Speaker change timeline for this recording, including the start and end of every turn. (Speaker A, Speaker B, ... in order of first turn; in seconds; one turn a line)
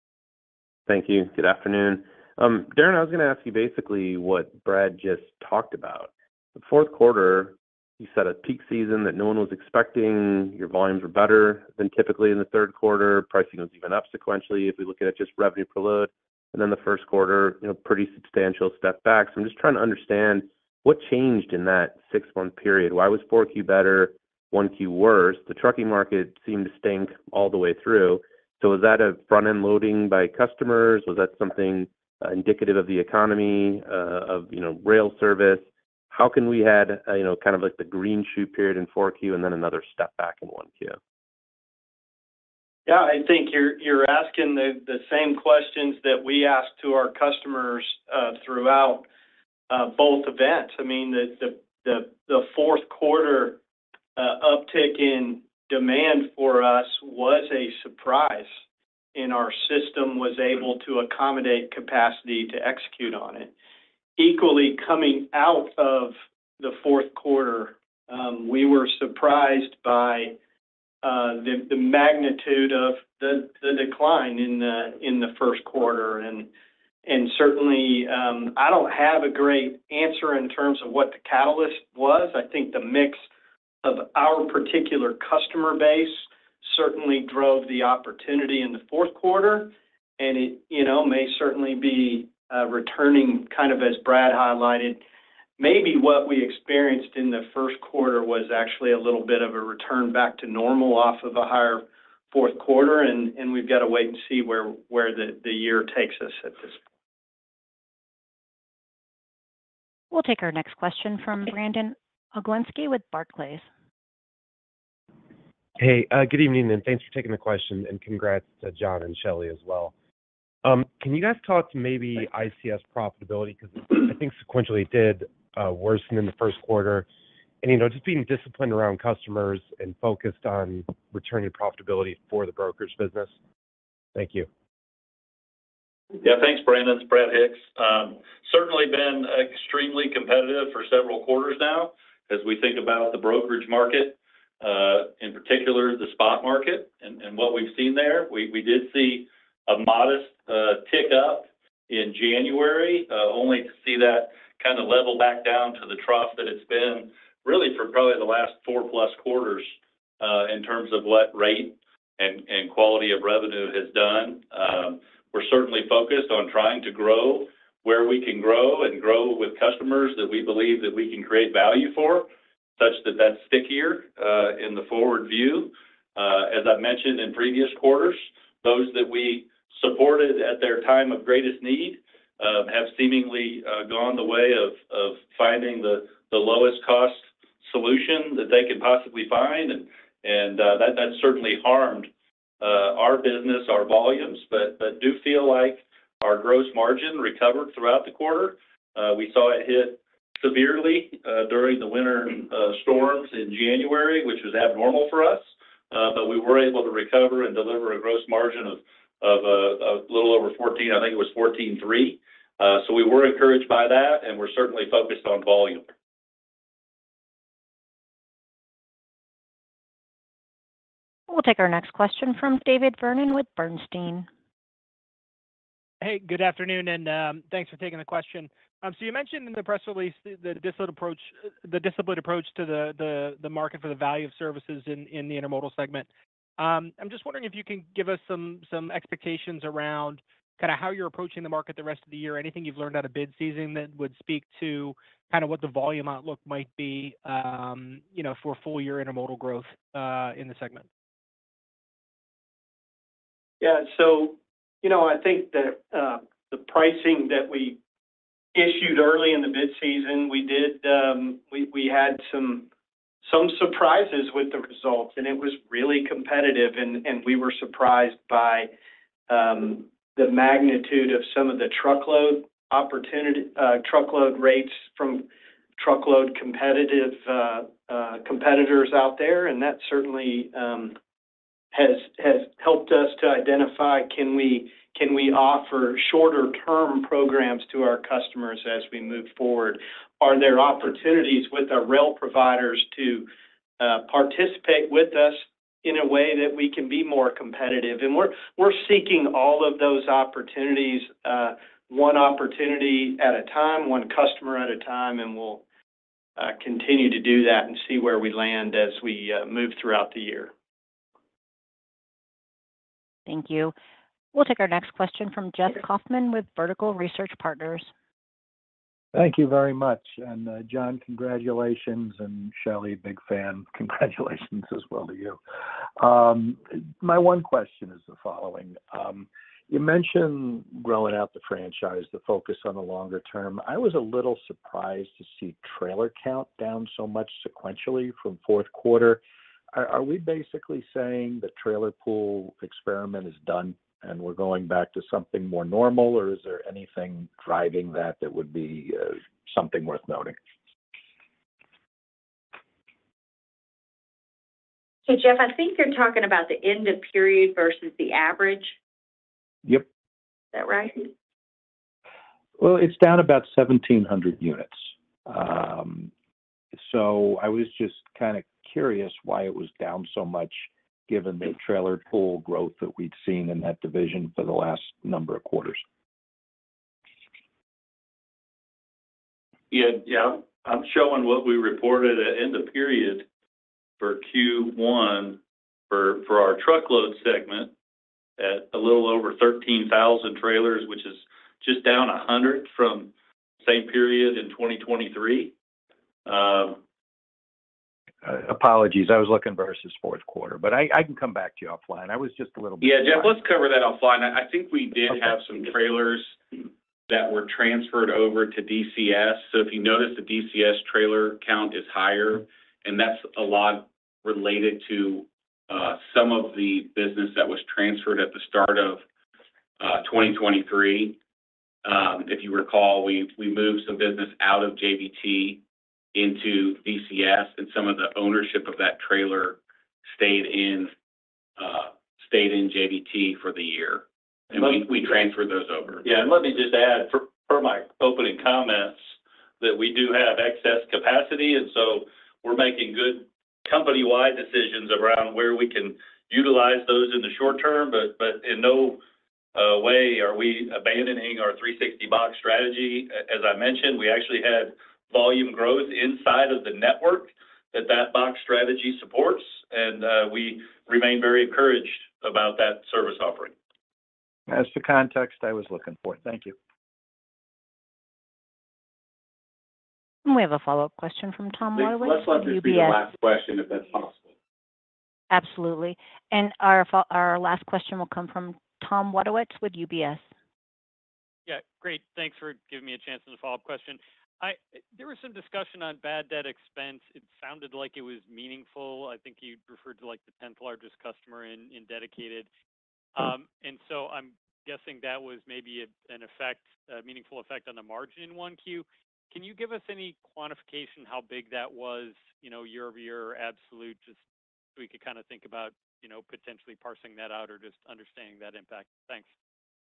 Speaker A: 0.9-41.0
Speaker B: 42.9-49.0
Speaker B: 49.7-53.6
Speaker B: 54.1-58.6
Speaker B: 59.1-63.5
Speaker B: 64.2-70.4
Speaker B: 71.0-76.5
Speaker B: 77.0-83.3
Speaker B: 83.8-95.0
Speaker B: 95.6-106.8
Speaker C: 110.1-113.7
Speaker D: 115.8-119.9
Speaker D: 120.6-127.0
Speaker D: 127.6-133.3
Speaker D: 134.1-134.5
Speaker E: 136.2-215.9
Speaker C: 221.3-224.3
Speaker F: 226.0-250.9
Speaker B: 253.6-257.8
Speaker B: 258.6-262.7
Speaker B: 263.2-268.7
Speaker B: 269.3-281.0
Speaker B: 281.7-293.3
Speaker B: 293.8-305.6
Speaker B: 306.4-310.5
Speaker C: 313.3-313.7
Speaker C: 314.3-317.9
Speaker G: 319.1-325.4
Speaker G: 326.0-339.2
Speaker G: 339.7-350.4
Speaker H: 355.1-358.8
Speaker H: 360.5-361.1
Speaker G: 362.6-366.1
Speaker G: 366.7-375.8
Speaker E: 379.7-383.3
Speaker E: 384.0-387.7
Speaker E: 388.4-395.5
Speaker E: 396.2-396.8
Speaker G: 398.2-403.4
Speaker I: 402.8-406.4
Speaker I: 407.1-419.0
Speaker I: 419.8-421.2
Speaker I: 421.8-425.6
Speaker I: 426.1-430.9
Speaker I: 431.6-436.1
Speaker E: 434.5-434.8
Speaker E: 436.0-439.0
Speaker E: 439.6-449.0
Speaker E: 449.5-463.5
Speaker G: 464.5-466.6
Speaker C: 470.2-473.0
Speaker I: 471.8-474.3
Speaker C: 475.3-480.2
Speaker J: 481.4-492.5
Speaker J: 493.1-504.2
Speaker J: 504.8-509.3